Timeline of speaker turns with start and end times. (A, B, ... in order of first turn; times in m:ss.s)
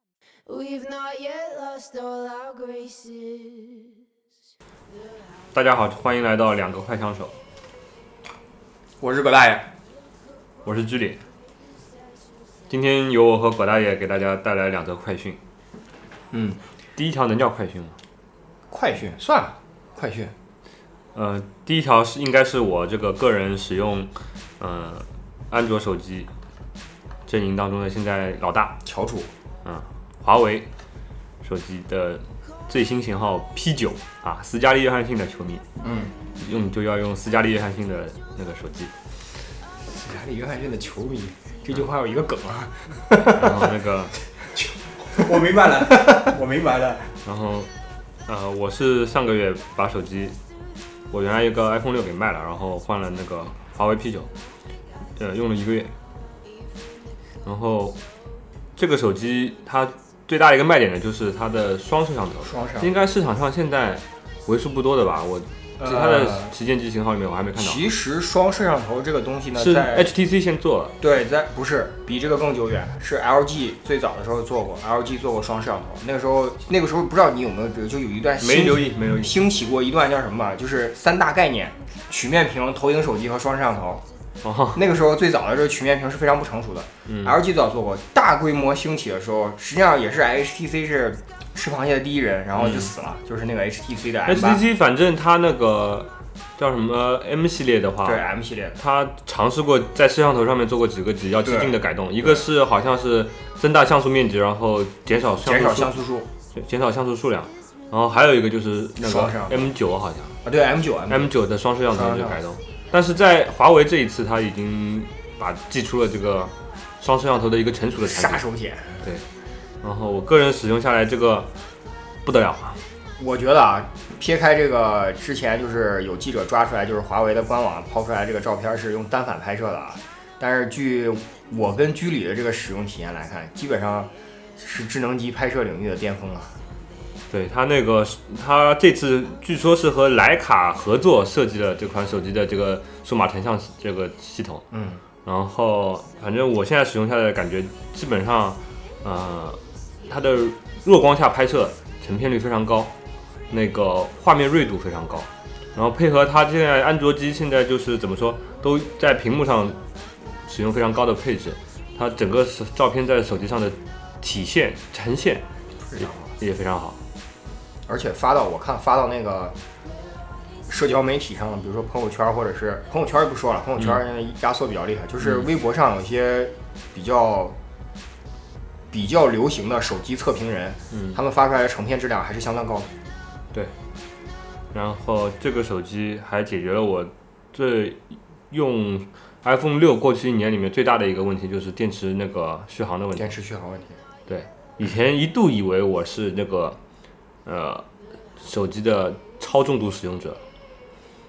0:00.4-0:04.0 A
0:05.5-0:07.3 B
0:09.0-0:09.7 C
0:10.6-0:11.2 B
0:12.7-0:15.4 B
0:16.3-0:16.6 C
0:17.0-0:18.0 B
0:18.7-0:20.3 C
0:21.1-0:26.3 B
0:27.3-0:28.8 B
0:28.8-0:29.3 C
0:29.6-0:30.7 B
0:31.4-0:35.6 B
0:35.8-0:36.1 C
0:36.4-0:38.9 B
0:39.8-0:43.7 C
0:43.2-0:44.1 B
0:44.3-0:47.1 C
0:47.2-0:47.7 B
0:48.2-0:50.4 B
0:51.1-0:54.3 B
0:55.2-0:55.9 B
0:57.4-0:58.0 B
0:58.8-1:07.8 B
1:02.4-1:02.9 C
1:05.8-1:06.5 C
1:07.6-1:10.1 C
1:09.6-1:10.9 B
1:11.0-1:24.0 C
1:18.4-1:19.4 B
1:24.4-1:24.8 B
1:24.7-1:34.6 C
1:27.1-1:27.3 B
1:34.2-1:38.2 B
1:38.0-1:38.8 C
1:38.8-1:45.9 B
1:41.4-1:42.4 C
1:45.4-1:46.3 C
1:46.5-1:50.4 B
1:49.0-1:49.7 C
1:50.4-1:51.3 C
1:51.1-1:58.4 B
1:51.9-1:52.4 C
1:58.0-1:59.1 C
1:59.8-2:01.5 B
2:02.2-2:02.8 B
2:03.2-2:16.6 C
2:17.3-2:24.6 B
2:24.7-2:25.0 C
2:25.2-2:32.9 B
2:33.5-2:39.8 B
2:40.4-2:45.4 B
2:45.9-2:46.3 C
2:46.0-2:47.0 B
2:47.9-2:49.5 C
2:50.7-2:57.6 C
2:55.2-2:55.5 B
2:58.9-3:02.9 C
3:00.9-3:01.2 B
3:04.7-3:08.0 B
3:08.5-3:13.3 B
3:13.2-3:14.0 C
3:14.3-3:16.8 B
3:17.4-3:17.8 B
3:18.4-3:20.4 B